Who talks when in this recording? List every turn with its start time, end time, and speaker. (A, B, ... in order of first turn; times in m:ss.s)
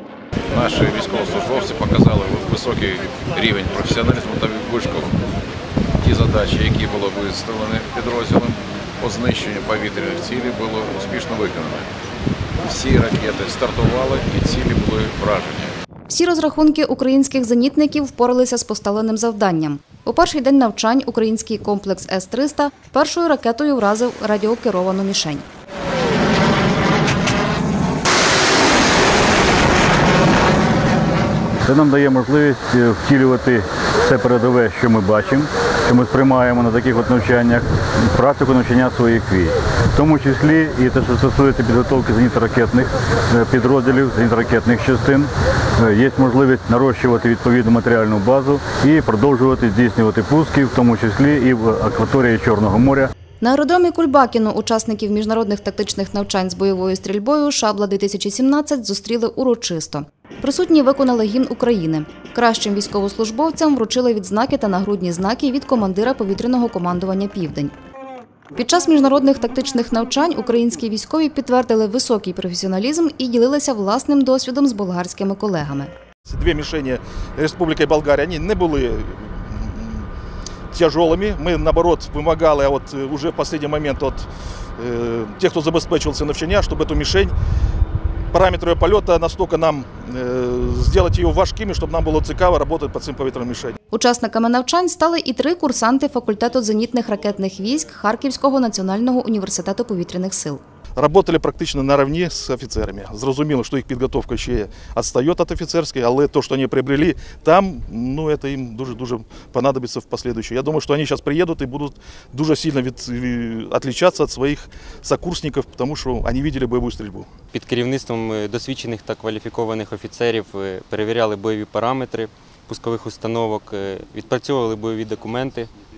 0:00.5-0:05.1 A
0:06.0-0:11.9 A
0:12.6-0:15.7 A
0:16.1-0:25.4 B
0:31.6-0:53.1 C
0:53.4-1:07.7 B
1:08.5-1:15.9 B
1:16.2-1:20.1 D
1:20.7-1:24.3 D
1:24.8-1:27.3 D
1:28.3-1:33.7 D
1:33.9-1:40.6 B
1:41.0-1:57.3 D
1:57.5-2:05.7 E